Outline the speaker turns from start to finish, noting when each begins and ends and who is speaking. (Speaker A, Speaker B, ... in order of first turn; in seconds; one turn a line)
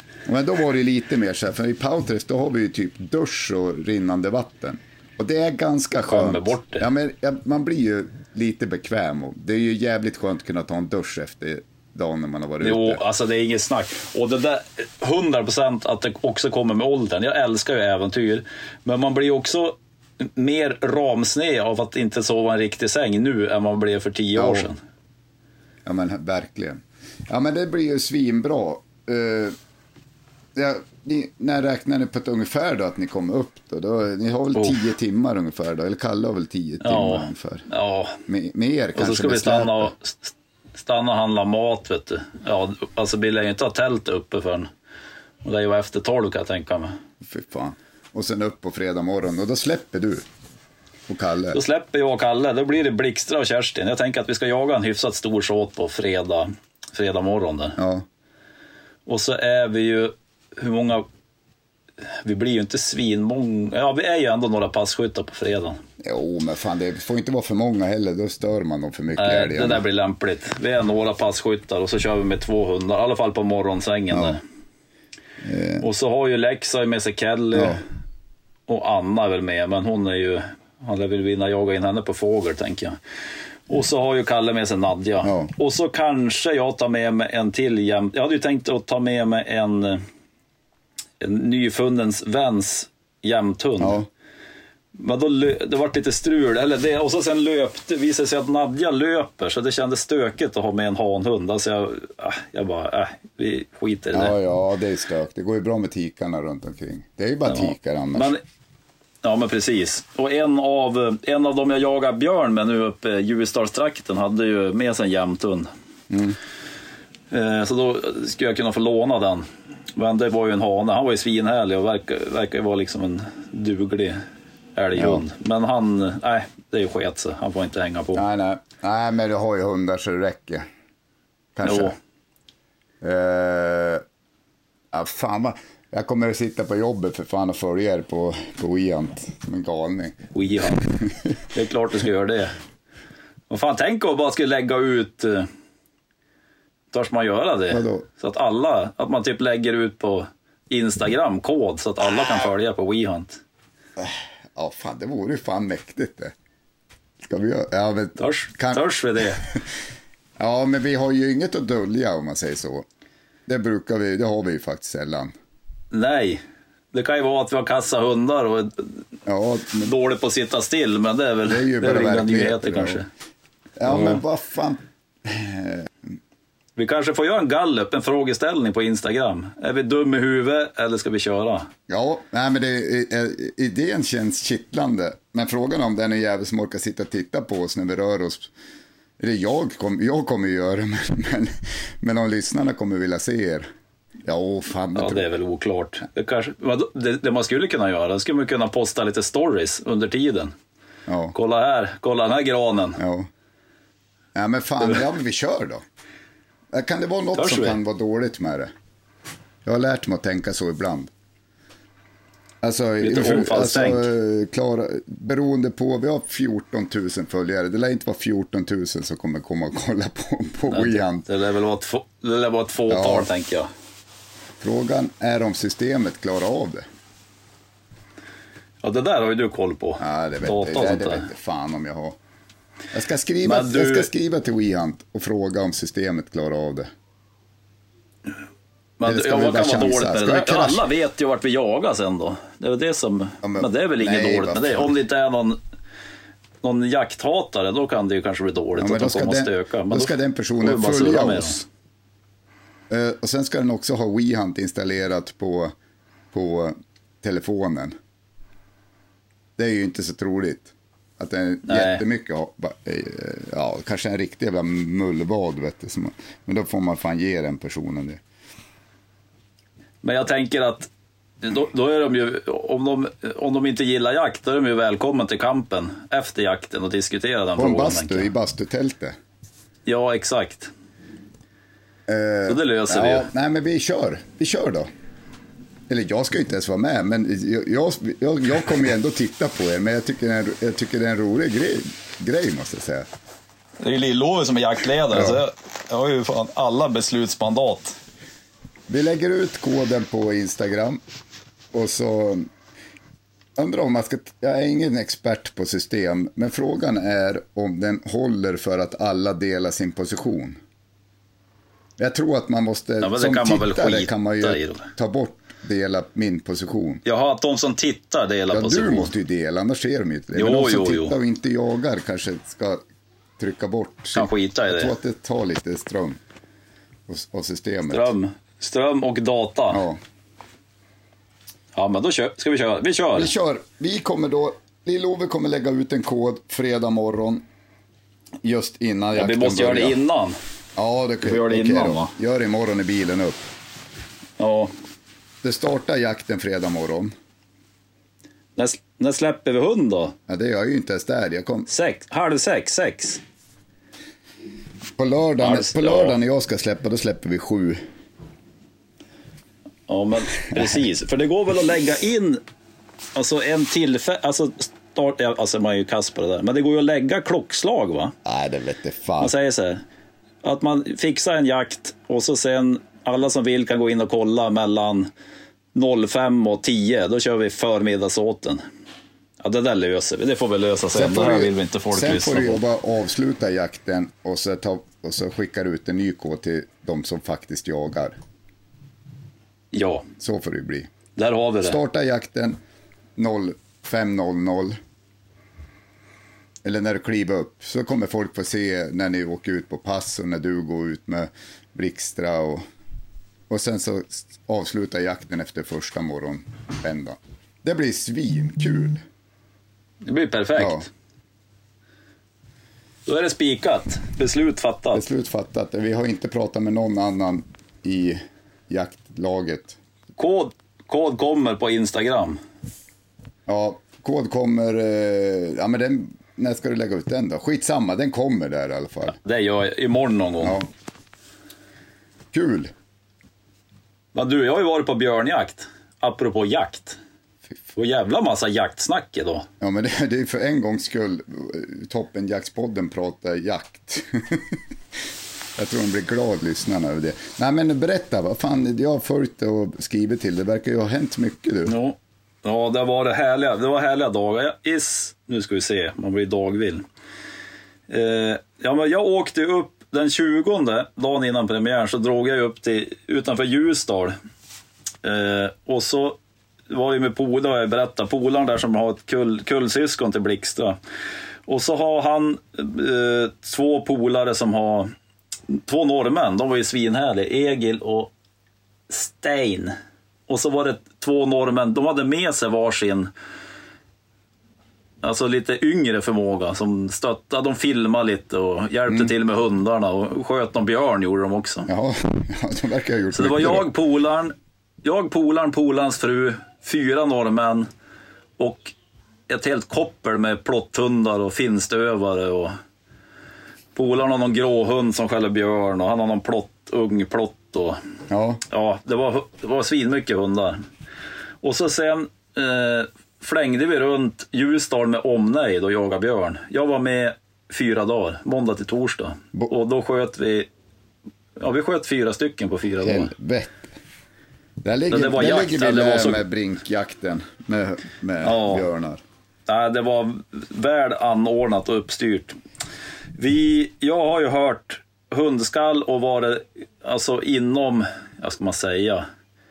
Speaker A: 0.2-13.0
Speaker B: 6.1-6.9
Speaker B: 12.6-24.8
Speaker A: 24.3-24.7
Speaker A: 25.8-29.6
Speaker A: 30.5-37.7
Speaker B: 34.5-34.8
Speaker B: 36.8-38.2
Speaker A: 38.3-39.9
Speaker B: 39.0-44.7
Speaker B: 45.4-47.0
Speaker A: 47.2-50.3
Speaker A: 51.1-51.6
Speaker B: 51.5-57.8
Speaker A: 57.8-58.0
Speaker B: 59.1-61.0
Speaker B: 62.1-65.8
Speaker A: 66.0-69.8
Speaker B: 69.2-74.4
Speaker A: 74.1-74.4
Speaker A: 75.4-75.9
Speaker B: 75.8-77.8
Speaker A: 77.5-77.8
Speaker B: 78.7-83.0
Speaker B: 83.7-90.0
Speaker A: 85.2-85.5
Speaker B: 91.2-94.0
Speaker A: 93.8-94.1
Speaker B: 95.0-104.3
Speaker A: 104.1-108.3
Speaker B: 107.5-108.4
Speaker B: 109.2-115.7
Speaker A: 116.1-116.4
Speaker B: 117.3-124.2
Speaker B: 124.8-128.2
Speaker A: 124.9-125.2
Speaker A: 128.1-130.7
Speaker A: 131.6-131.9
Speaker B: 131.6-131.9
Speaker A: 133.0-134.0
Speaker A: 134.9-141.3
Speaker B: 140.3-140.8
Speaker B: 141.5-142.6
Speaker B: 143.5-145.5
Speaker B: 146.9-153.4
Speaker A: 147.7-148.1
Speaker A: 154.0-156.3
Speaker A: 157.2-158.9
Speaker B: 158.2-159.4
Speaker A: 160.4-162.8
Speaker A: 163.4-165.3
Speaker B: 165.9-166.4
Speaker B: 166.9-169.0
Speaker A: 169.3-169.9
Speaker B: 169.8-173.1
Speaker A: 171.4-173.1
Speaker A: 173.8-175.9
Speaker B: 173.8-174.2
Speaker B: 176.8-181.7
Speaker A: 181.9-188.5
Speaker A: 189.2-193.7
Speaker A: 194.2-195.3
Speaker B: 194.9-200.5
Speaker A: 201.1-201.3
Speaker B: 201.3-203.0
Speaker A: 203.0-203.3
Speaker A: 204.3-205.8
Speaker A: 206.7-208.7
Speaker B: 207.3-207.8
Speaker A: 209.6-211.1
Speaker A: 212.6-221.3
Speaker B: 213.0-214.1
Speaker B: 220.7-223.7
Speaker A: 222.9-223.3
Speaker A: 224.6-226.9
Speaker B: 228.8-231.3
Speaker A: 230.0-232.2
Speaker A: 232.9-236.9
Speaker B: 233.4-234.1
Speaker B: 239.0-245.6
Speaker A: 239.0-240.8
Speaker A: 243.4-245.0
Speaker B: 246.6-251.6
Speaker A: 248.8-251.7
Speaker A: 252.9-255.7
Speaker A: 256.3-257.9
Speaker A: 259.6-268.2
Speaker B: 261.6-262.0
Speaker B: 270.0-270.9
Speaker B: 271.4-278.3
Speaker A: 277.6-279.2
Speaker B: 279.9-280.7
Speaker A: 282.1-284.9
Speaker B: 282.5-283.3
Speaker A: 285.9-293.1
Speaker B: 293.8-298.0
Speaker A: 295.1-295.4
Speaker A: 298.9-301.0
Speaker A: 301.7-302.5
Speaker A: 303.6-310.6
Speaker A: 312.0-317.0
Speaker B: 313.0-314.9
Speaker B: 317.0-319.1
Speaker A: 318.5-322.8
Speaker B: 320.3-321.2
Speaker A: 323.4-326.2
Speaker B: 324.1-324.9
Speaker A: 327.1-328.1
Speaker B: 327.9-329.8
Speaker A: 329.7-330.0
Speaker B: 331.7-333.3
Speaker A: 333.1-337.4
Speaker A: 338.4-340.0
Speaker B: 339.1-340.4
Speaker A: 340.8-343.5
Speaker B: 341.2-342.1
Speaker B: 344.4-344.7
Speaker A: 345.4-347.1
Speaker B: 348.6-350.1
Speaker A: 350.3-351.7
Speaker B: 351.7-353.2
Speaker A: 355.0-357.8
Speaker B: 355.4-356.2
Speaker B: 359.9-362.4
Speaker B: 363.1-368.1
Speaker A: 368.2-369.3
Speaker B: 369.2-369.8
Speaker B: 370.4-375.1
Speaker B: 375.7-378.6
Speaker B: 379.4-382.6
Speaker A: 380.9-388.2
Speaker B: 389.7-390.1
Speaker A: 390.2-390.9
Speaker B: 391.1-391.8
Speaker A: 391.6-392.6
Speaker A: 393.2-394.8
Speaker A: 396.6-402.6
Speaker A: 403.5-409.0
Speaker B: 410.0-410.9
Speaker A: 410.6-410.9
Speaker B: 413.1-415.1
Speaker A: 414.9-419.8
Speaker B: 420.2-422.4
Speaker A: 423.5-429.2
Speaker B: 429.1-430.6
Speaker A: 430.4-430.7
Speaker A: 432.3-432.7
Speaker B: 434.1-437.0
Speaker B: 437.7-439.4
Speaker A: 439.6-444.6
Speaker A: 445.6-451.8
Speaker B: 451.6-456.8
Speaker B: 457.9-464.1
Speaker B: 465.0-466.2
Speaker B: 466.7-470.8
Speaker B: 471.5-474.9
Speaker B: 475.5-478.1
Speaker B: 478.9-479.7
Speaker B: 480.3-483.1
Speaker B: 485.0-491.7
Speaker A: 491.6-493.7
Speaker B: 493.1-497.7
Speaker B: 498.4-498.7
Speaker B: 499.3-502.6
Speaker B: 503.7-507.8
Speaker A: 508.1-508.4
Speaker B: 508.5-510.6
Speaker B: 511.4-520.5
Speaker B: 521.4-523.1
Speaker A: 522.8-523.7
Speaker A: 524.6-529.0
Speaker B: 524.9-526.2
Speaker B: 528.2-528.7
Speaker B: 529.5-532.4
Speaker B: 533.2-539.1